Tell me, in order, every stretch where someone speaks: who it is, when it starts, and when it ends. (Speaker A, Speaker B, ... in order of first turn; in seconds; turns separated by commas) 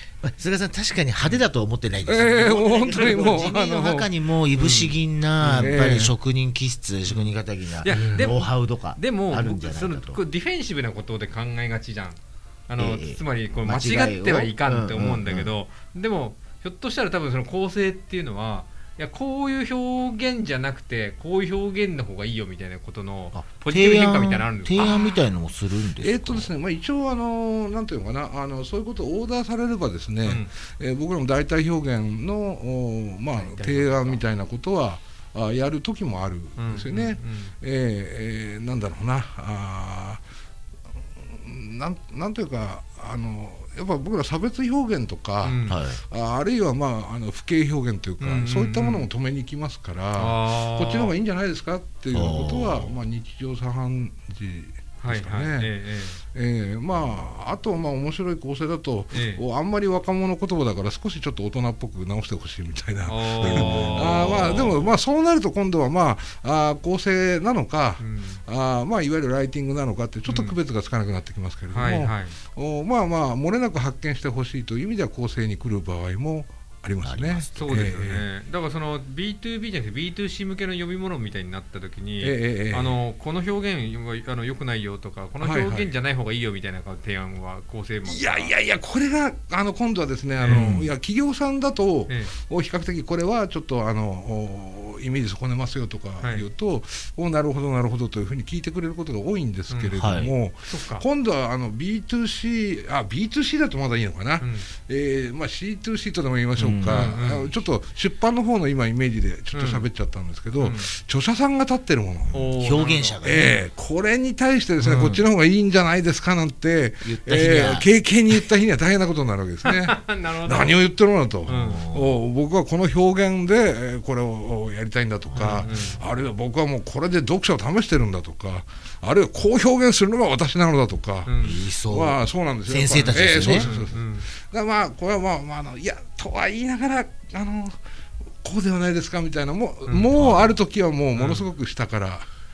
Speaker A: 0.2-10.2, Speaker B: 2.1-4.1, Speaker C: 4.5-5.8, Speaker B: 5.5-6.1, Speaker C: 7.8-25.0, Speaker B: 7.9-8.2, Speaker A: 12.8-15.5, Speaker A: 23.3-26.5, Speaker B: 24.8-25.2, Speaker B: 26.0-40.2, Speaker C: 33.3-34.2, Speaker C: 36.6-37.5, Speaker B: 41.2-55.7, Speaker C: 45.4-45.8, Speaker A: 45.7-46.0, Speaker C: 48.2-49.1, Speaker C: 50.1-51.1, Speaker A: 52.1-52.9, Speaker C: 55.0-56.2, Speaker B: 56.3-78.2, Speaker C: 59.1-59.4, Speaker C: 63.1-65.0, Speaker A: 63.5-63.9, Speaker C: 68.0-68.4, Speaker C: 70.3-70.6, Speaker C: 71.7-72.4, Speaker A: 77.0-77.9, Speaker C: 77.5-88.5, Speaker B: 82.2-83.0, Speaker B: 85.4-85.9, Speaker B: 88.1-112.5, Speaker C: 90.4-90.8, Speaker A: 90.5-90.9, Speaker C: 99.7-100.0, Speaker A: 99.9-100.3, Speaker C: 100.7-101.1, Speaker C: 104.4-104.7, Speaker A: 106.6-107.1, Speaker C: 106.8-107.5, Speaker C: 109.5-109.8, Speaker C: 110.6-110.9, Speaker C: 112.3-113.2, Speaker A: 112.5-113.6, Speaker B: 113.2-137.8, Speaker A: 114.8-115.2, Speaker A: 117.0-117.9, Speaker C: 119.7-120.8, Speaker C: 121.5-121.8, Speaker A: 121.5-122.2, Speaker A: 125.3-126.0, Speaker C: 125.5-126.0, Speaker C: 131.2-131.6, Speaker A: 131.4-133.7, Speaker C: 133.0-134.3, Speaker B: 138.4-142.3, Speaker A: 140.1-140.6, Speaker C: 141.2-141.5